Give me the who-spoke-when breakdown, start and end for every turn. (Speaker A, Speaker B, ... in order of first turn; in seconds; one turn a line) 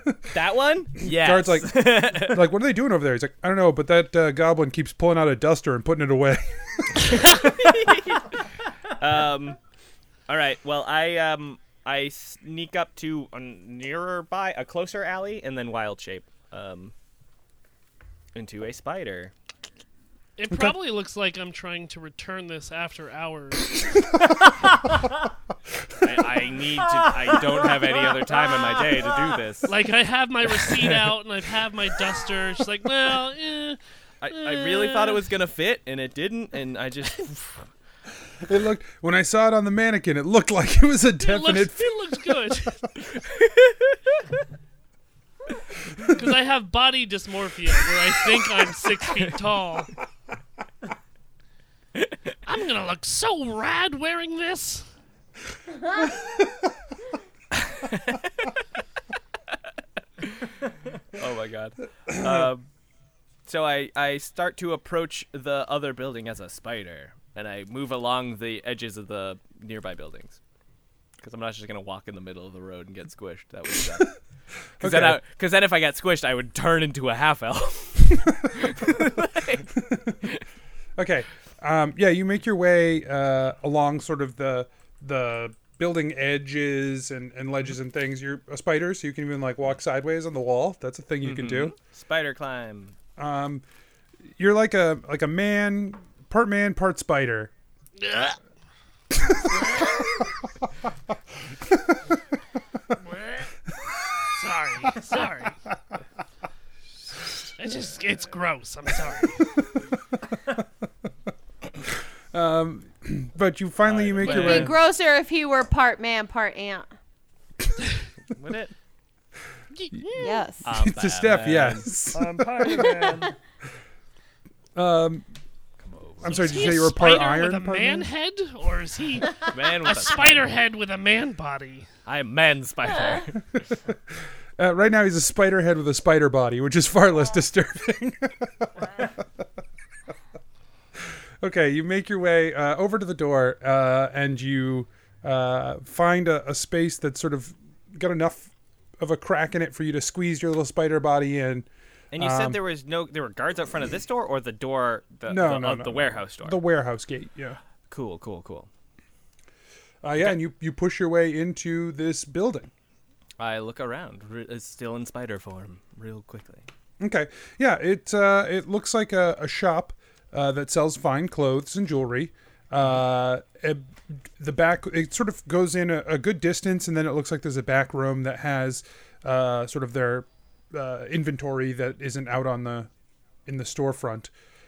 Speaker A: 0.3-2.4
Speaker B: 1.0-6.5
Speaker A: 7.1-9.6
Speaker A: 10.3-16.9
Speaker A: 18.4-19.3
Speaker C: 20.4-23.9
Speaker A: 26.0-29.7
Speaker C: 29.7-33.8
Speaker A: 30.7-31.0
Speaker A: 34.2-37.6
Speaker C: 34.3-35.2
Speaker B: 38.5-41.9
Speaker C: 41.2-42.8
Speaker A: 43.1-44.1
Speaker C: 46.1-49.9
Speaker C: 52.5-54.9
Speaker A: 57.5-58.5
Speaker A: 61.2-62.7
Speaker B: 62.2-62.5
Speaker A: 63.5-70.4
Speaker A: 71.2-74.2
Speaker B: 74.8-75.2
Speaker A: 74.8-80.4
Speaker B: 81.0-91.8
Speaker A: 91.2-93.0
Speaker B: 93.2-93.6
Speaker B: 94.4-97.5
Speaker C: 98.0-98.4
Speaker C: 104.3-105.6
Speaker C: 107.6-109.5
Speaker B: 112.3-114.8
Speaker A: 113.8-114.8
Speaker D: 114.2-116.9
Speaker A: 118.3-118.7
Speaker C: 119.8-120.4
Speaker D: 120.2-120.7
Speaker A: 120.6-121.9
Speaker B: 120.7-122.8
Speaker B: 124.8-125.3
Speaker A: 125.8-126.7
Speaker B: 126.2-128.1
Speaker C: 126.3-131.9
Speaker A: 129.5-130.5
Speaker A: 132.1-133.6
Speaker B: 134.6-139.1
Speaker B: 141.4-152.6
Speaker A: 152.1-156.6
Speaker B: 155.3-157.6
Speaker A: 157.9-158.7
Speaker B: 160.0-162.7
Speaker A: 163.4-166.7
Speaker B: 167.0-182.9
Speaker B: 183.5-184.3